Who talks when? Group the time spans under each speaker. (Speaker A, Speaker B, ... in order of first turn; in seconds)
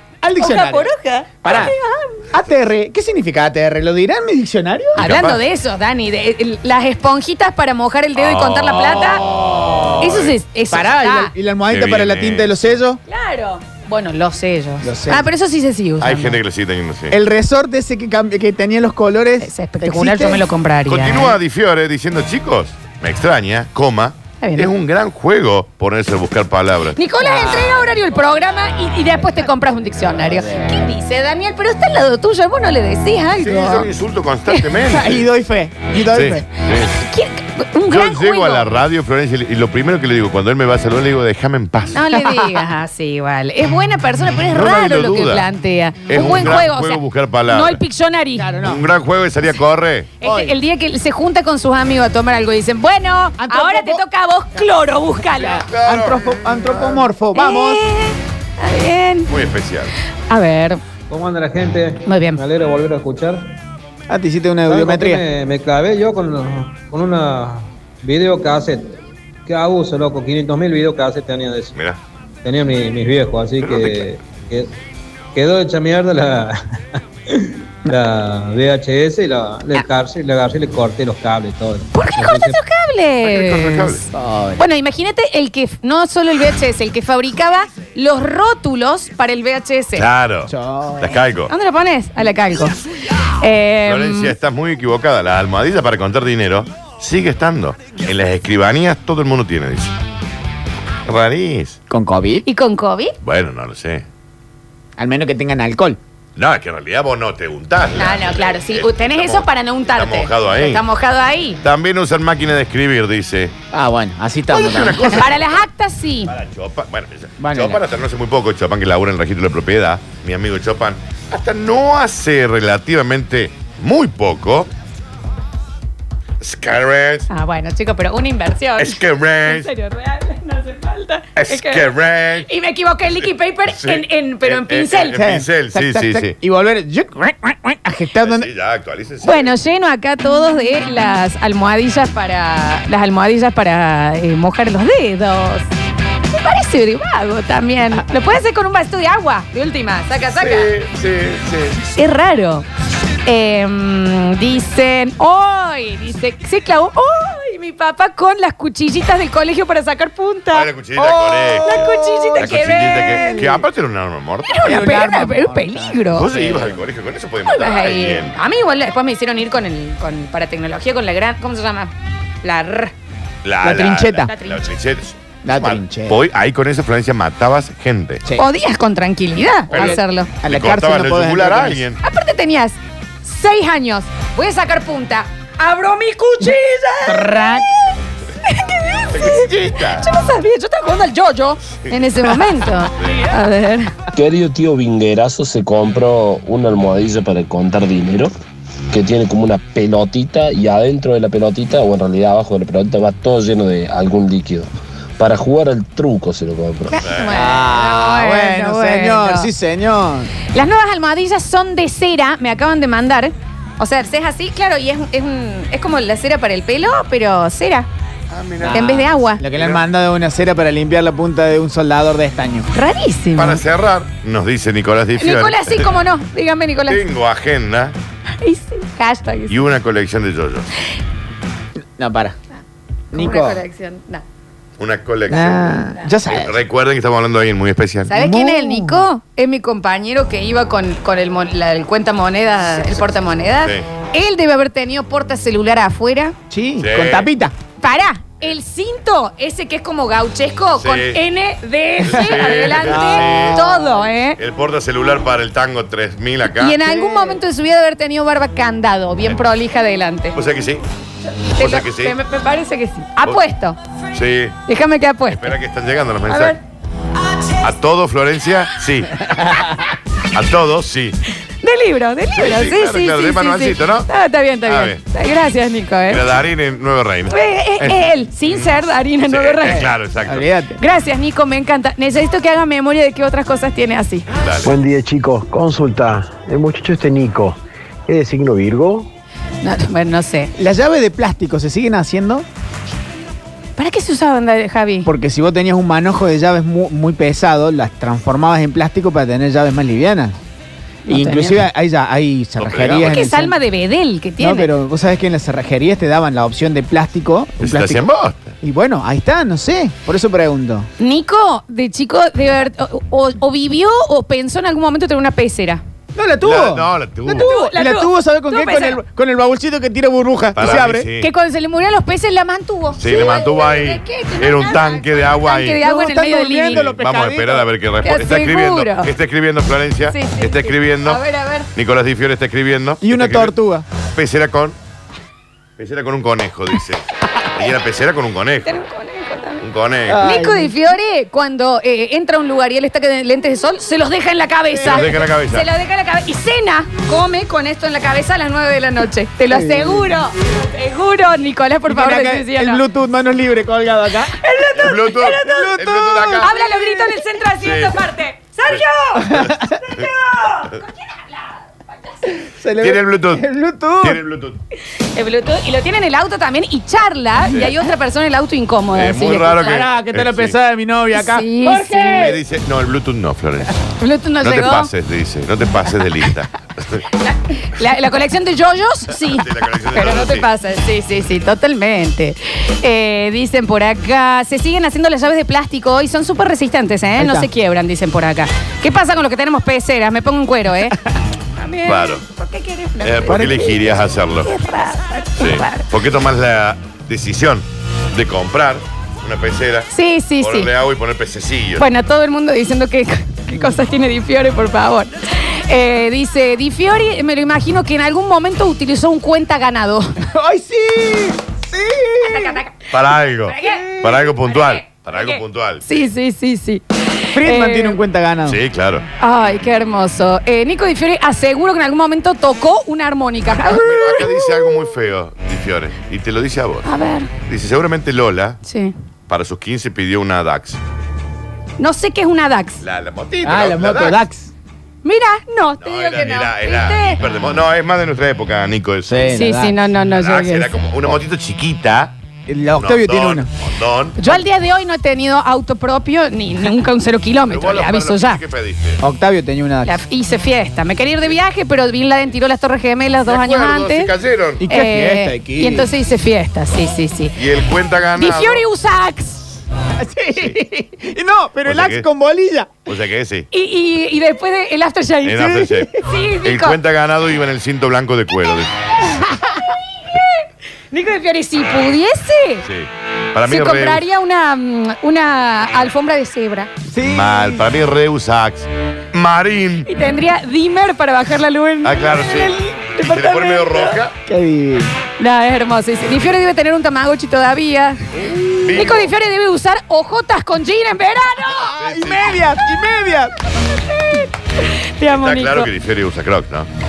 Speaker A: 0.2-0.9, 1.4-1.7, 2.3-5.1, 9.3-13.0, 14.8-15.3, 17.1-20.4, 27.2-27.8, 30.1-30.8, 34.8-36.4, 42.1-42.7, 48.4-48.9, 50.2-50.6, 53.4-54.0, 55.3-57.9, 64.1-65.2, 84.1-84.7, 90.5-91.2, 101.9-102.4, 105.0-106.0, 113.7-115.2, 117.4-117.8, 135.1-138.5, 160.9-163.6, 164.6-166.8, 173.6-174.3, 175.4-176.2, 179.7-181.8, 187.1-187.7, 207.3-210.3, 218.6-222.7, 231.9-232.4, 233.1-233.6, 235.3-236.6, 238.1-239.0, 246.5-247.6, 252.1-253.8, 256.8-257.4, 280.2-280.8, 290.6-292.4, 295.1-300.4, 301.1-303.6, 304.4-308.0, 308.6-310.9, 316.1-321.1, 325.8-327.7, 333.0-333.9, 340.1-340.7, 344.7-345.2, 349.5-350.1, 351.9-354.4, 355.2-357.1, 359.2-359.8, 362.4-364.2, 369.6-372.4, 387.2-387.5, 393.2-393.8, 410.2-412.6, 413.6-414.1, 417.3-418.6, 433.4-434.5, 439.1-439.8, 442.5-443.5, 449.0-450.0, 454.6-455.9, 460.0-462.8, 465.4-465.9, 476.9-477.6, 484.2-484.9, 488.2-488.9, 491.7-493.3
Speaker B: 0.4-2.2, 4.9-9.2, 10.0-11.3, 13.1-16.4, 19.4-21.4, 24.4-24.7, 26.9-33.9, 36.9-38.7, 41.9-48.5, 50.2-55.6, 57.4-59.3, 60.3-60.8, 62.0-62.4, 81.9-84.0, 84.6-90.1, 91.5-94.3, 102.4-103.1, 108.0-111.6, 115.1-116.3, 127.3-131.9, 132.4-135.1, 139.2-145.7, 146.3-150.7, 151.9-152.7, 153.2-160.7, 161.6-163.4, 164.5-166.3, 167.5-171.9, 172.4-172.9, 174.2-174.6, 178.4-180.3, 182.0-187.7, 188.4-194.0, 206.9-209.5, 210.5-217.9, 218.7-219.4, 222.7-223.6, 225.2-227.0, 228.4-229.6, 233.1-234.2, 238.1-246.4, 247.8-254.4, 256.5-260.4, 261.4-263.8, 264.7-265.6, 266.3-266.6, 271.6-276.2, 277.3-279.9, 280.8-284.3, 289.6-290.5, 293.8-295.1, 301.1-301.6, 303.0-304.7, 311.0-315.8, 317.4-319.0, 320.6-326.9, 328.0-329.1, 330.1-331.7, 338.6-339.6, 340.2-352.8, 354.4-355.7, 356.4-361.6, 365.0-369.8, 371.1-372.3, 374.0-374.9, 377.1-391.0, 391.6-393.7, 394.4-395.9, 399.9-400.7, 401.8-410.2, 412.2-412.8, 413.4-418.0, 419.2-424.8, 426.9-427.3, 428.6-428.9, 431.8-432.8, 435.0-437.2, 439.4-440.7, 444.2-448.4, 449.9-454.1, 454.7-457.4, 458.2-459.5, 463.5-466.8, 469.6-472.6, 473.4-476.7, 479.9-484.0, 485.2-488.1, 488.7-491.8, 493.6-495.7
Speaker C: 5.0-5.4, 8.2-10.3, 11.7-12.7, 16.0-17.1, 20.9-27.0, 33.4-35.3, 36.1-37.0, 37.9-42.0, 44.5-45.5, 46.1-47.8, 48.6-50.1, 55.6-57.1, 59.3-59.9, 73.6-74.0, 83.2-84.1, 90.0-91.5, 93.9-99.9, 101.0-101.8, 103.2-104.0, 106.4-110.8, 111.6-113.5, 114.5-115.6, 116.2-124.7, 126.4-127.3, 128.8-129.7, 131.4-132.5, 133.2-136.4, 138.2-139.6, 150.3-151.9, 160.5-164.9, 166.1-168.4, 173.4-178.2, 179.7-182.0, 189.1-190.1, 207.0-207.3, 218.3-219.8, 223.4-225.9, 226.9-227.9, 229.5-230.7, 234.8-238.1, 243.4-243.8, 246.8-247.3, 250.8-251.2, 252.0-253.6, 254.4-256.8, 260.4-260.8, 261.6-262.1, 264.1-264.6, 265.3-266.6, 267.6-269.6, 270.3-271.2, 272.4-274.1, 274.6-275.0, 276.1-278.7, 279.3-280.5, 284.3-284.7, 302.6-303.2, 307.6-308.6, 316.4-317.5, 320.6-321.3, 322.9-325.8, 326.7-331.2, 331.7-333.6, 334.1-334.8, 335.8-338.8, 339.6-340.2, 344.9-345.7, 354.8-356.5, 357.6-358.0, 358.7-359.6, 362.8-363.4, 364.0-364.6, 368.9-370.6, 372.1-373.8, 374.4-377.1, 379.1-380.5, 391.9-392.2, 393.0-394.5, 395.4-401.9, 412.9-415.9, 418.4-419.1, 423.5-426.9, 427.4-428.6, 429.3-430.8, 432.8-434.2, 435.8-439.4, 440.1-442.1, 442.7-444.2, 447.5-449.0, 453.2-454.6, 457.4-458.6, 461.6-462.1, 462.9-463.5, 465.2-465.9, 466.4-469.0, 472.6-474.0, 477.1-479.9, 481.8-484.1, 486.0-486.3, 488.2-489.1, 491.8-492.4, 495.0-496.7
Speaker D: 61.1-63.5, 64.7-68.9, 69.5-71.7, 72.4-74.7, 75.3-82.6
Speaker E: 194.1-198.3, 198.9-207.0
Speaker F: 284.6-287.6, 288.1-289.1